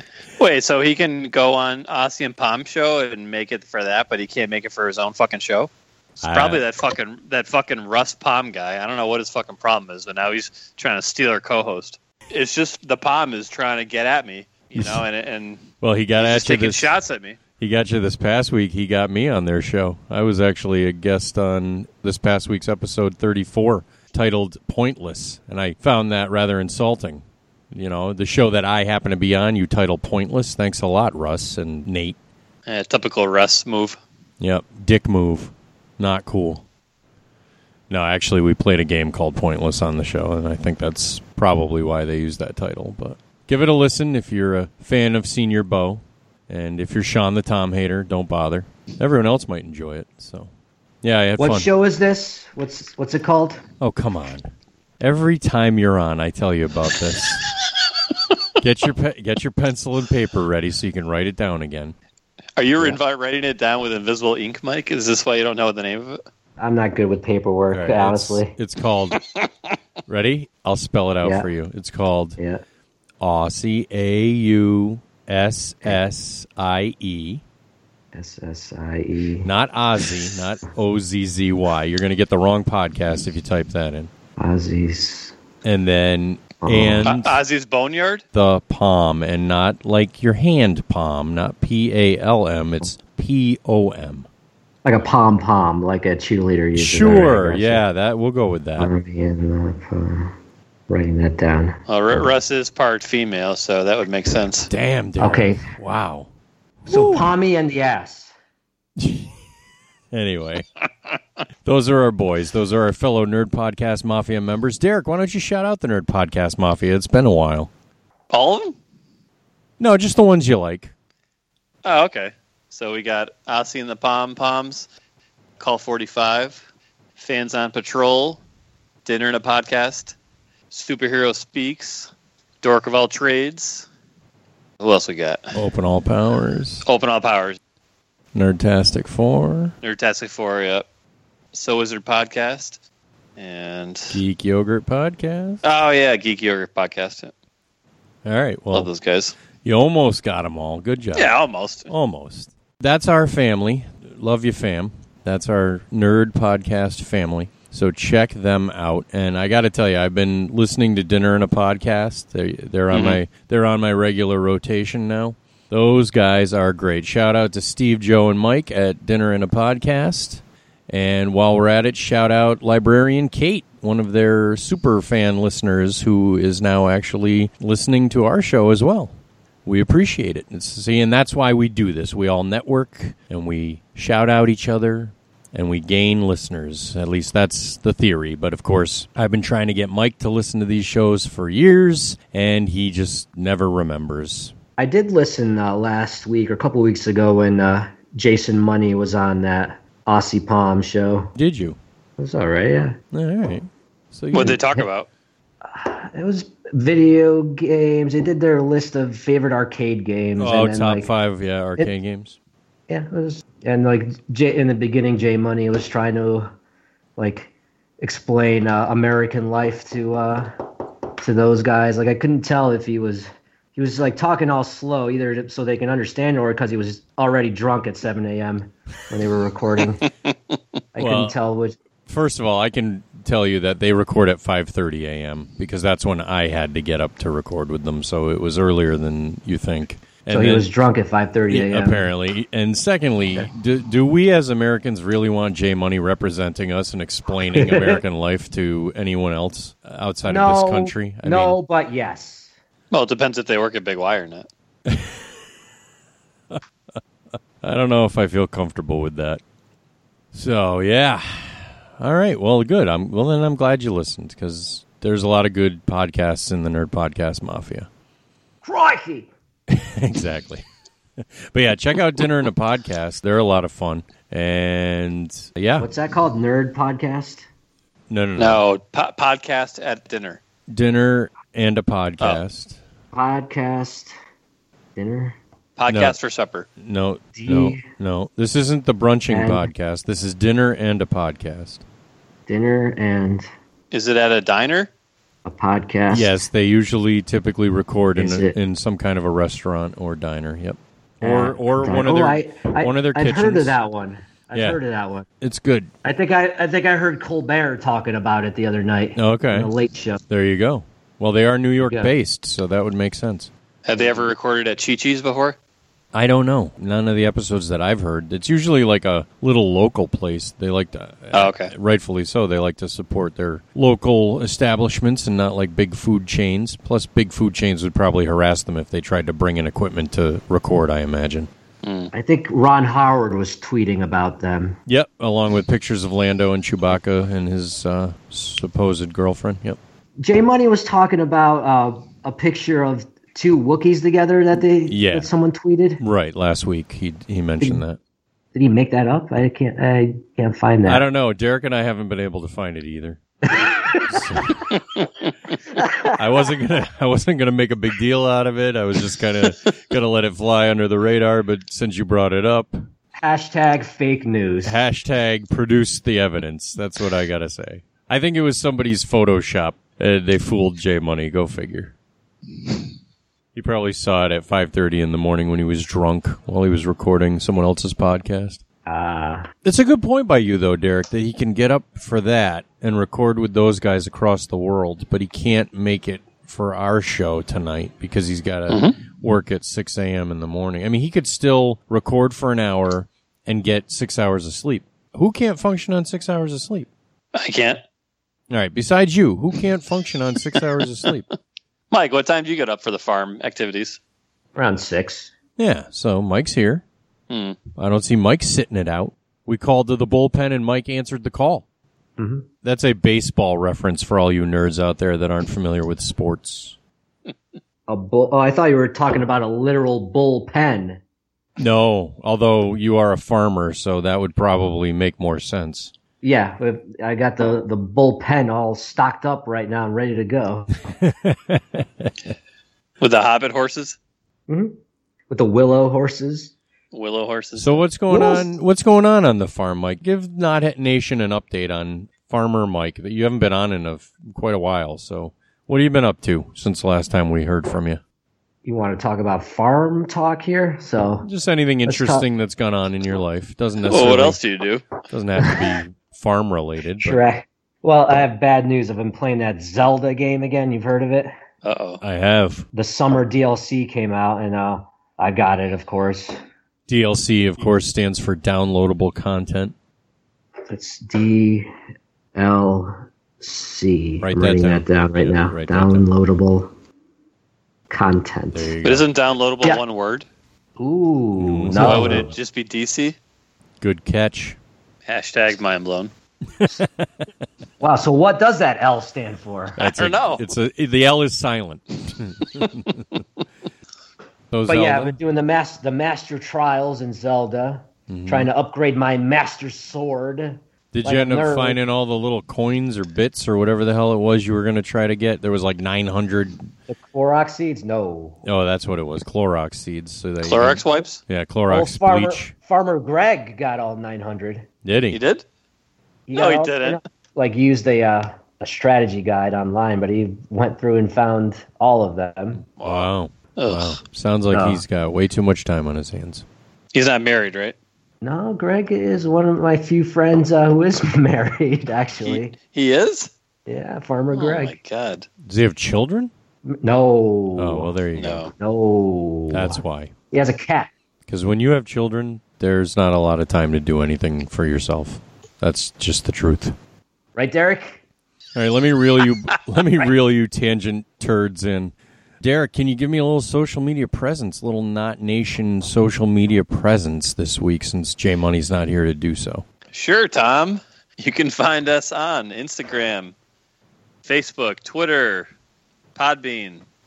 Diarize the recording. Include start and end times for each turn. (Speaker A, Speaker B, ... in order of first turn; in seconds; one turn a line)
Speaker A: 0.4-15.6
Speaker B: 6.2-6.6
Speaker B: 14.8-15.0
Speaker B: 15.8-16.9
Speaker A: 16.1-17.4
Speaker B: 17.6-32.2
Speaker A: 32.7-34.0
Speaker B: 34.4-36.6
Speaker B: 37.9-51.7
Speaker C: 51.4-53.6
Speaker B: 53.8-57.5
Speaker B: 58.6-61.9
Speaker A: 62.6-66.2
Speaker C: 66.6-68.5
Speaker B: 67.7-69.2
Speaker B: 70.1-72.4
Speaker C: 71.2-71.5
Speaker B: 73.2-77.4
Speaker C: 78.1-79.5
Speaker B: 79.4-84.1
Speaker C: 84.4-85.3
Speaker B: 85.6-87.4
Speaker C: 86.6-87.1
Speaker A: 87.0-88.2
Speaker B: 88.3-94.3
Speaker C: 94.8-97.8
Speaker B: 96.7-98.9
Speaker C: 98.8-100.3
Speaker C: 100.9-102.2
Speaker A: 101.9-104.7
Speaker B: 104.7-106.3
Speaker C: 105.2-105.6
Speaker B: 106.9-107.3
Speaker C: 106.9-108.3
Speaker B: 109.0-109.4
Speaker B: 110.1-110.7
Speaker B: 111.6-117.7
Speaker A: 118.3-118.8
Speaker B: 119.8-120.9
Speaker A: 121.8-124.9
Speaker A: 125.6-126.6
Speaker A: 127.2-128.4
Speaker A: 129.0-130.1
Speaker A: 130.7-132.1
Speaker A: 132.6-133.9
Speaker A: 134.8-135.5
Speaker B: 135.5-136.8
Speaker A: 136.8-137.6
Speaker B: 138.3-139.7
Speaker A: 139.8-140.8
Speaker A: 141.5-142.8
Speaker A: 143.4-144.2
Speaker B: 144.1-145.6
Speaker A: 145.6-147.3
Speaker B: 148.2-148.9
Speaker A: 148.7-149.3
Speaker B: 149.6-194.5
Speaker A: 151.1-151.9
Speaker A: 162.9-163.2
Speaker C: 194.8-201.3
Speaker B: 201.3-201.8
Speaker C: 202.2-203.0
Speaker B: 203.1-204.8
Speaker A: 204.3-205.1
Speaker C: 205.6-211.1
Speaker B: 210.4-212.3
Speaker C: 212.9-216.5
Speaker C: 217.2-220.5
Speaker C: 221.2-230.1
Speaker C: 230.9-231.8
Speaker B: 231.0-231.3
Speaker B: 232.1-240.7
Speaker C: 240.3-242.1
Speaker B: 241.5-251.6
Speaker C: 247.5-248.0
Speaker C: 250.3-252.5
Speaker A: 252.9-254.5
Speaker B: 254.9-255.3
Speaker B: 257.6-259.4
Speaker B: 260.3-267.9
Speaker C: 268.6-269.3
Speaker B: 269.7-270.6
Speaker B: 271.2-275.9
Speaker C: 275.8-277.4
Speaker B: 278.1-278.6
Speaker A: 278.4-280.4
Speaker B: 280.7-282.8
Speaker C: 283.1-284.1
Speaker C: 284.9-285.4
Speaker A: 285.8-286.6
Speaker B: 285.9-286.1
Speaker B: 286.8-291.8
Speaker C: 287.3-287.8
Speaker C: 289.3-289.7
Speaker C: 292.5-293.5
Speaker A: 293.9-294.9
Speaker C: 295.4-296.4
Speaker B: 296.1-303.8
Speaker C: 298.1-298.6
Speaker C: 301.2-305.2
Speaker B: 304.5-304.8
Speaker B: 305.4-305.9
Speaker C: 306.0-310.2
Speaker B: 309.1-309.7
Speaker B: 310.3-313.5
Speaker C: 311.8-312.1
Speaker A: 313.8-315.6
Speaker B: 316.1-331.5
Speaker A: 321.3-321.7
Speaker A: 331.8-332.1
Speaker C: 332.1-334.8
Speaker B: 334.9-339.8
Speaker C: 340.2-346.0
Speaker B: 344.9-345.3
Speaker B: 346.0-348.0
Speaker C: 348.5-351.0
Speaker B: 350.9-353.2
Speaker B: 354.1-354.6
Speaker C: 355.8-356.2
Speaker B: 356.1-362.8
Speaker C: 363.2-364.8
Speaker B: 364.6-371.9
Speaker B: 373.5-378.6
Speaker C: 378.9-379.5
Speaker B: 379.6-396.9
Speaker A: 388.7-389.0
Speaker A: 397.3-397.8
Speaker B: 398.5-401.2
Speaker A: 401.9-404.0
Speaker C: 404.6-405.3
Speaker B: 405.6-406.8
Speaker A: 407.3-407.6
Speaker B: 407.8-411.6
Speaker C: 412.2-412.4
Speaker B: 412.6-416.8
Speaker C: 417.9-421.0
Speaker B: 421.6-425.9
Speaker C: 426.2-430.7
Speaker B: 430.9-432.1
Speaker A: 433.0-433.9
Speaker C: 434.5-434.7
Speaker C: 435.3-436.5
Speaker A: 436.9-437.8
Speaker B: 437.6-448.0
Speaker C: 438.1-438.4
Speaker C: 448.6-451.3
Speaker B: 451.2-454.4
Speaker C: 451.9-452.2
Speaker A: 453.9-454.8
Speaker B: 455.1-457.2
Speaker C: 457.0-461.3
Speaker A: 461.6-462.0
Speaker B: 462.0-462.7
Speaker C: 462.7-466.4
Speaker B: 466.9-469.7
Speaker C: 470.7-471.7
Speaker C: 472.4-476.7
Speaker B: 474.2-476.1
Speaker C: 477.9-478.7
Speaker B: 478.5-479.1
Speaker A: 478.8-480.3
Speaker C: 480.8-482.3
Speaker B: 481.4-482.3
Speaker A: 481.7-483.1
Speaker B: 483.8-484.6
Speaker A: 485.1-486.1
Speaker B: 486.6-487.2
Speaker C: 487.8-489.8
Speaker B: 489.8-493.1
Speaker A: 489.8-490.4
Speaker B: 494.5-495.2
Speaker C: 494.7-501.8
Speaker B: 498.1-498.5
Speaker B: 500.9-506.7
Speaker C: 506.9-508.4
Speaker B: 508.4-512.5
Speaker A: 510.4-511.2
Speaker C: 511.7-514.6
Speaker B: 514.8-515.2
Speaker A: 515.1-515.4
Speaker C: 516.3-522.6
Speaker A: 516.3-517.0
Speaker A: 522.8-524.0
Speaker B: 522.8-526.4
Speaker C: 524.5-524.8
Speaker A: 526.9-527.8
Speaker C: 528.2-532.5
Speaker A: 532.2-533.3
Speaker C: 533.7-534.7
Speaker A: 534.3-535.2
Speaker B: 535.4-536.3
Speaker C: 536.7-537.9
Speaker B: 537.6-538.4
Speaker A: 538.1-538.5
Speaker C: 538.6-539.8
Speaker B: 539.5-540.1
Speaker C: 540.3-540.9
Speaker B: 541.3-546.7
Speaker C: 547.4-548.0
Speaker B: 548.5-559.6
Speaker A: 559.9-563.3
Speaker A: 564.2-565.5
Speaker A: 566.1-566.8